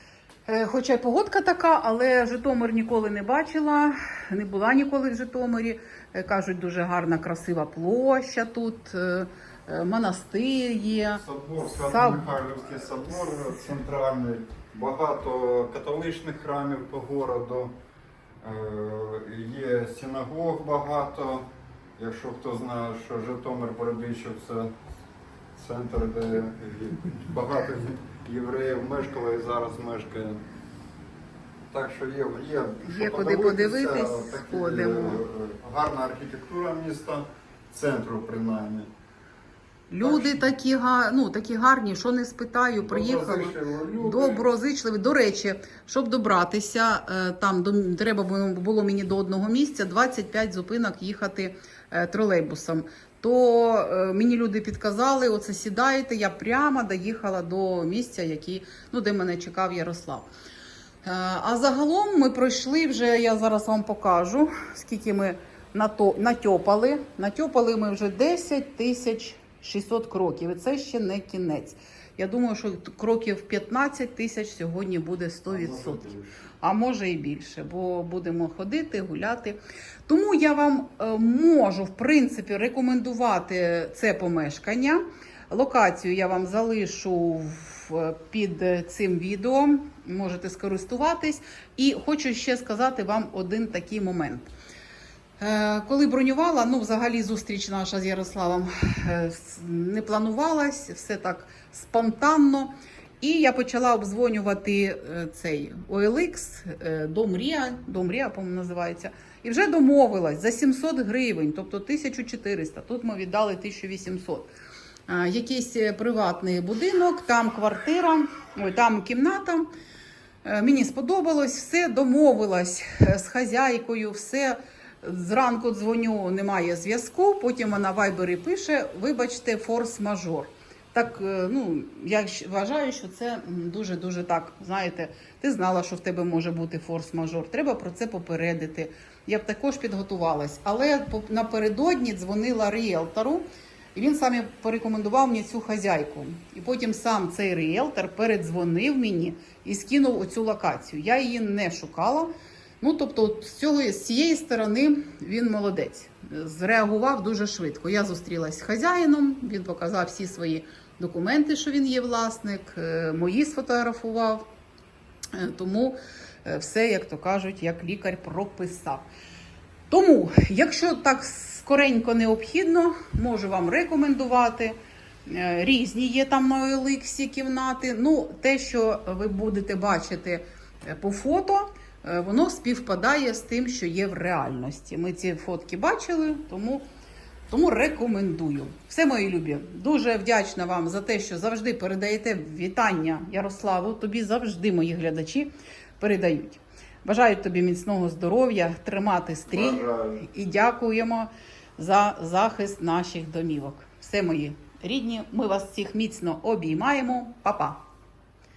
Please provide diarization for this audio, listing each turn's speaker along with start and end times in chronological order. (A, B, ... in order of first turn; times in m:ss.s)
0:00.5-0:12.4 A
0:11.1-0:17.7 B
0:18.4-0:21.4 B
0:22.0-0:24.7 B
0:25.6-0:30.4 B
0:31.7-0:38.9 B
0:32.8-0:35.2 A
0:39.9-1:00.3 A
0:40.0-0:40.4 B
0:42.8-0:44.5 B
1:01.0-1:16.1 A
1:15.5-1:16.4 B
1:16.6-1:34.5 A
1:35.4-1:54.5 A
1:55.1-1:59.7 A
2:00.4-2:44.5 A
2:45.3-2:49.0 A
2:49.9-2:54.8 A
2:55.3-3:06.8 A
3:07.5-3:27.8 A
3:19.5-3:20.3 B